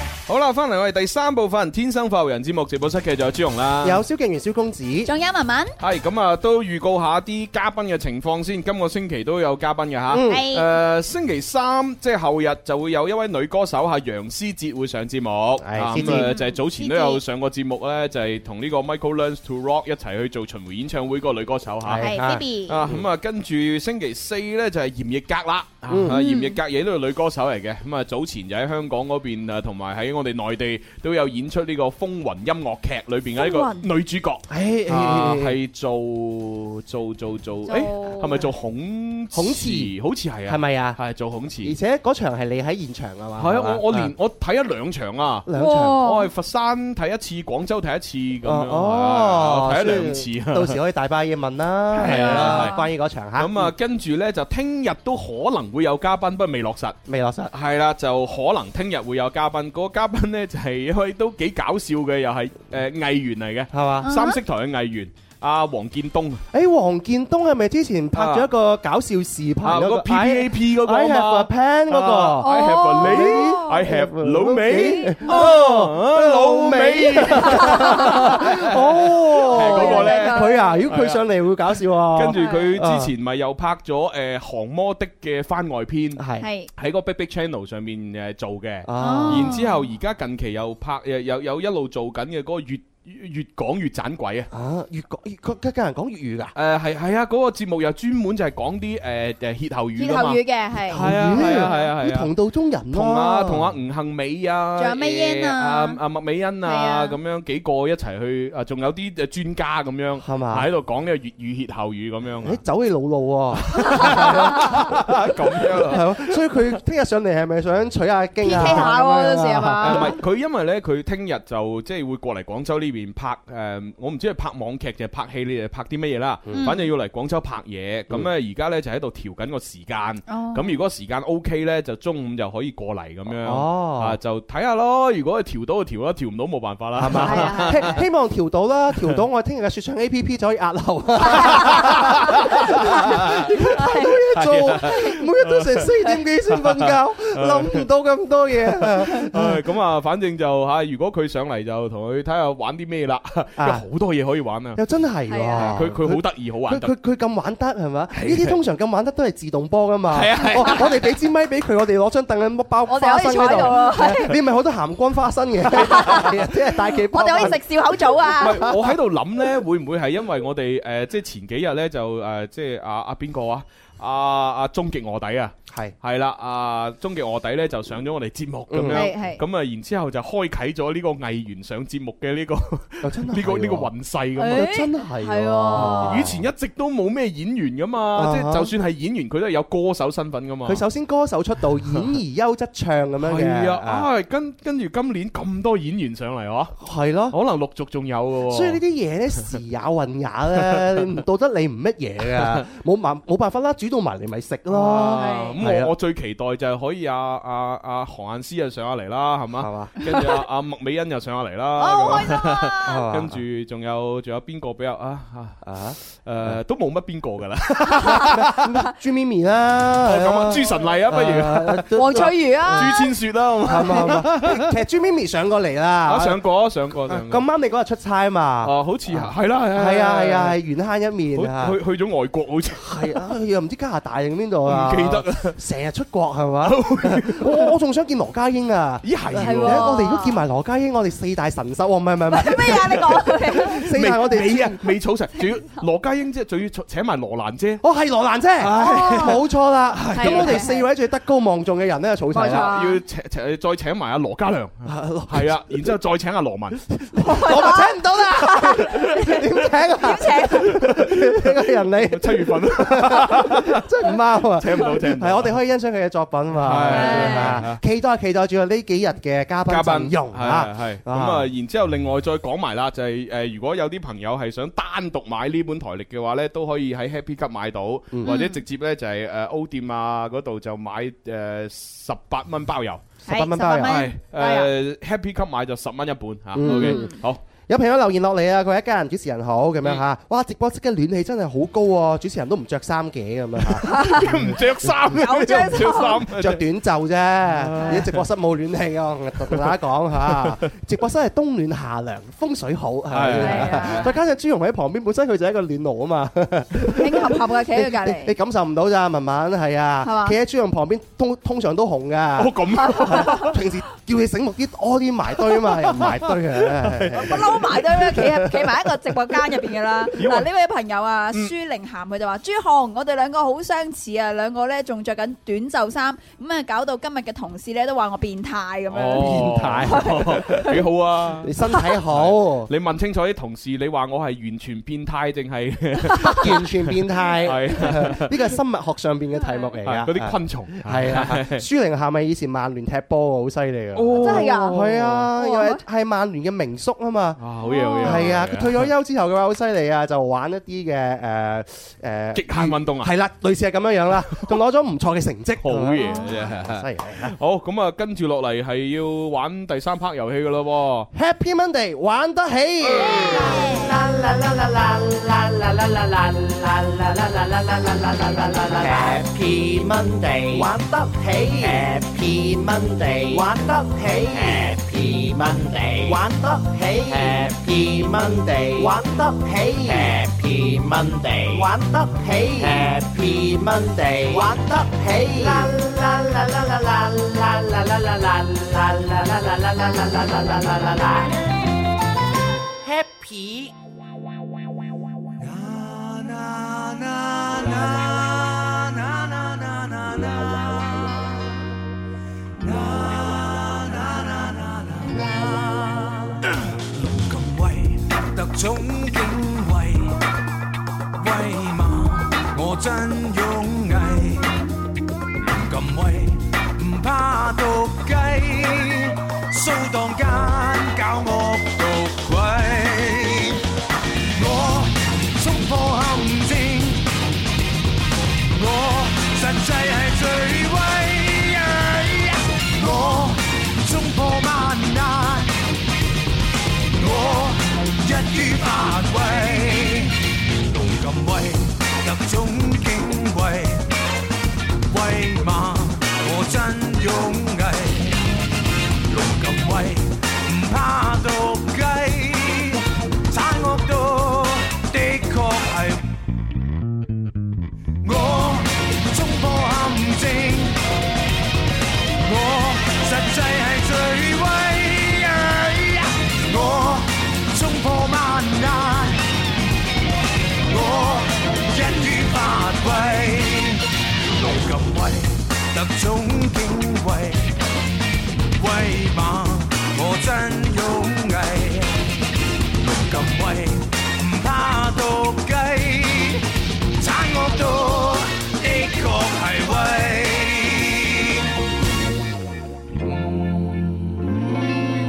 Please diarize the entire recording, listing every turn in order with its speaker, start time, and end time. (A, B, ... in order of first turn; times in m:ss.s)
0:00.3-0:04.0 A
0:03.8-0:05.1 B
0:05.1-0:05.8 C
0:05.8-0:41.8 A
0:10.1-0:10.4 B
0:10.2-0:10.7 C
0:15.6-0:16.3 B
0:16.0-0:17.2 C
0:21.8-0:23.1 B
0:22.0-0:22.8 C
0:25.9-0:26.2 B
0:26.1-0:26.6 C
0:33.4-0:33.9 C
0:34.5-0:35.6 B
0:37.7-0:38.5 C
0:39.3-0:39.9 B
0:40.5-0:41.0 B
0:41.6-0:44.1 B
0:43.4-0:50.8 A
0:45.5-0:46.0 B
0:45.5-0:46.3 C
0:48.4-0:53.7 B
0:51.9-0:52.8 A
0:52.0-0:52.9 C
0:53.4-0:57.0 A
0:57.1-0:57.5 B
0:57.5-1:06.4 A
1:03.7-1:04.1 B
1:04.0-1:04.4 C
1:06.5-1:23.1 B
1:08.1-1:08.5 A
1:09.6-1:18.7 A
1:12.4-1:13.8 C
1:14.7-1:15.6 C
1:17.7-1:18.2 C
1:19.5-1:20.9 C
1:19.5-1:21.2 A
1:22.1-1:26.2 A
1:22.3-1:22.8 C
1:26.2-1:26.4 B
1:26.4-1:26.7 C
1:26.8-1:34.5 A
1:28.9-1:29.6 B
1:29.0-1:29.8 C
1:34.5-1:36.5 B
1:36.6-1:42.3 A
1:40.0-1:41.9 C
1:40.9-1:43.7 B
1:42.9-1:52.6 A
1:44.8-1:46.0 C
1:46.6-1:47.2 C
1:50.2-1:50.7 B
1:52.4-1:55.1 B
1:53.7-1:56.4 A
1:55.8-2:00.1 B
1:58.4-2:00.2 C
1:58.6-1:58.9 A
1:59.8-2:18.0 A
2:06.6-2:06.9 C
2:10.3-2:10.7 C
2:13.4-2:14.2 B
2:17.0-2:29.6 B
2:17.1-2:18.0 C
2:21.2-2:24.2 C
2:21.4-2:22.5 A
2:23.1-2:23.5 A
2:24.3-2:25.9 A
2:24.8-2:25.2 C
2:26.5-2:27.8 A
2:29.0-2:34.8 A
2:33.6-2:33.8 B
2:34.8-2:47.6 B
2:35.3-2:35.8 C
2:35.5-2:36.9 A
2:38.1-2:38.6 A
2:40.1-2:41.1 A
2:42.9-2:44.4 C
2:45.7-2:46.4 C
2:45.9-2:46.3 A
2:47.0-2:48.8 C
2:48.2-2:48.7 B
2:48.3-3:04.8 A
2:55.7-2:56.0 B
2:58.7-2:59.0 B
2:58.9-2:59.4 C
3:03.0-3:03.9 B
3:04.4-3:06.3 C
3:04.5-3:06.4 B
3:05.7-3:10.8 A
3:08.2-3:08.7 B
3:10.7-3:14.1 B
3:13.2-3:16.7 A
3:16.8-3:17.4 B
3:17.3-3:18.8 A
3:18.5-3:25.9 B
3:20.7-3:21.1 A
3:22.2-3:22.6 A
3:24.7-3:38.6 A
3:25.1-3:25.6 C
3:29.6-3:29.9 B
3:31.8-3:33.0 C
3:32.9-3:33.4 B
3:35.6-3:36.6 B
3:38.2-3:43.0 B
3:40.0-3:44.7 A
3:42.0-3:43.1 C
3:43.6-3:46.4 B
3:46.0-3:47.4 A
3:47.1-3:51.8 B
3:48.6-3:50.6 A
3:51.3-3:53.2 A
3:52.8-4:04.8 B
3:54.6-3:55.6 A
3:56.6-3:57.7 A
3:59.0-4:00.0 A
3:59.4-4:00.4 C
4:02.3-4:03.9 C
4:02.7-4:07.8 A
4:07.8-4:12.7 B
4:08.6-4:09.4 A
4:08.7-4:09.4 C
4:10.0-4:10.7 A
4:10.1-4:10.9 C
4:12.3-4:13.0 C
4:12.4-4:16.9 A
4:14.9-4:15.9 B
4:17.1-4:31.5 B
4:17.2-4:19.4 C
4:17.4-4:17.7 A
4:19.9-4:20.8 C
4:20.5-4:25.6 A
4:26.5-4:27.8 A
4:26.9-4:27.6 C
4:29.7-4:43.0 A
4:38.2-4:38.6 C
4:43.3-4:44.7 C
4:43.3-4:44.0 B
4:43.8-4:47.4 A
4:46.6-4:47.1 B
4:46.6-4:47.2 C
4:47.7-4:54.5 B
4:53.6-4:56.6 A
4:53.9-4:54.4 C
4:55.1-4:56.2 C
4:56.3-5:17.4 B
4:57.5-4:58.2 A
4:57.8-4:58.0 C
4:59.5-5:00.6 A
5:03.1-5:04.2 A
5:03.4-5:04.1 C
5:07.0-5:08.4 C
5:10.0-5:10.4 C
5:12.4-5:13.6 A
5:12.8-5:13.5 C
5:15.5-5:17.9 A
5:17.1-5:30.8 C
5:20.1-5:20.5 A
5:28.9-5:38.3 A
5:29.2-5:30.3 B
5:31.4-5:32.7 B
5:36.3-5:47.4 B
5:39.4-5:39.7 C
5:39.8-5:41.7 A
5:43.9-5:45.2 A
5:44.2-5:44.8 C
5:45.4-5:45.8 C
5:47.4-5:48.9 A
5:47.6-5:48.4 C
5:48.0-5:57.4 B
5:52.3-5:53.1 A
5:55.6-6:01.1 A
5:56.0-5:56.5 C
6:01.1-6:03.6 B
6:03.5-6:03.8 C
6:03.6-6:31.3 D
6:32.8-6:33.7 D
6:35.4-6:41.5 E
6:42.6-6:50.2 E
6:51.2-6:54.6 E
6:55.4-7:03.6 E
7:04.3-7:07.1 E
7:08.5-7:15.6 E
7:16.9-7:23.9 E
7:24.9-7:28.2 E
7:29.1-7:36.0 E
7:38.0-7:40.8 E
7:42.2-7:49.2 E
7:50.6-7:57.5 E
7:58.6-8:02.0 E
8:02.8-8:06.4 E
8:07.0-8:11.5 E